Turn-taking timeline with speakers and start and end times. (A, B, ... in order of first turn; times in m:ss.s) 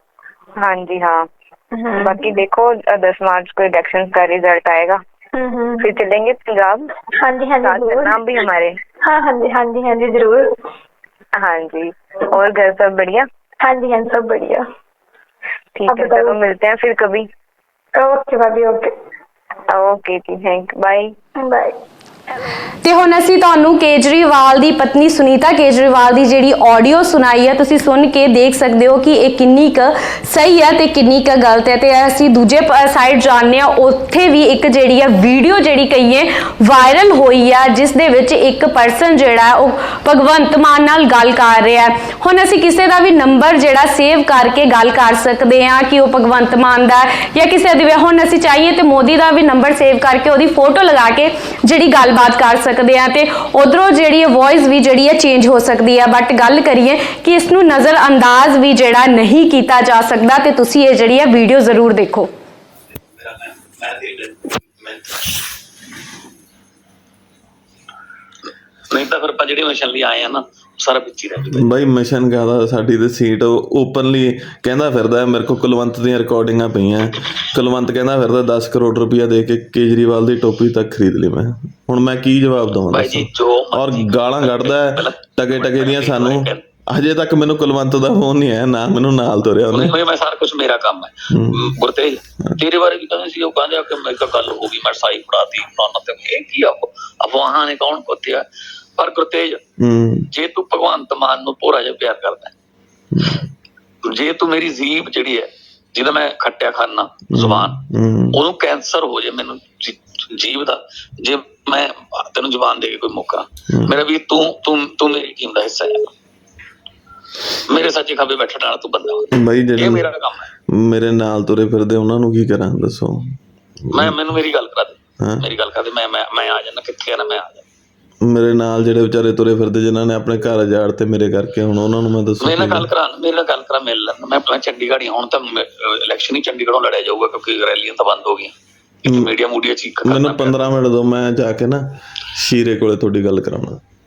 0:00.6-0:01.2 A
0:01.7-0:02.2 B
0:02.0-0:05.0 A
0:05.3-0:05.9 B
0:05.8-0:06.9 A
0:07.2-0:08.2 B
0:07.6-0:08.8 A
0:09.0-0:10.6 B
0:11.4-0:13.3 A
0:13.6-0:14.6 B
0:15.7-0:17.3 A
0:15.9-0:16.3 B
0:17.9-0:18.9 B
0:19.7-0:21.1 A
0:21.4-0:21.8 B
0:22.8-1:02.3 C
1:03.1-1:05.3 D
1:08.9-1:11.6 D
1:11.5-1:30.0 E
1:22.9-1:26.6 D
1:29.7-1:38.4 D
1:31.3-1:31.7 E
1:39.0-1:39.6 D
1:39.8-1:40.3 E
1:40.3-1:42.5 D
1:43.1-1:43.4 E
1:44.1-1:47.8 D
1:47.3-1:48.4 E
1:48.3-1:56.1 D
1:57.7-2:00.5 D
1:59.3-2:00.1 E
2:00.7-2:04.2 E
2:03.9-2:07.6 D
2:05.2-2:05.5 E
2:08.2-2:12.9 E
2:12.4-2:18.5 D
2:19.0-2:20.6 D
2:20.0-2:21.8 E
2:22.3-2:23.8 E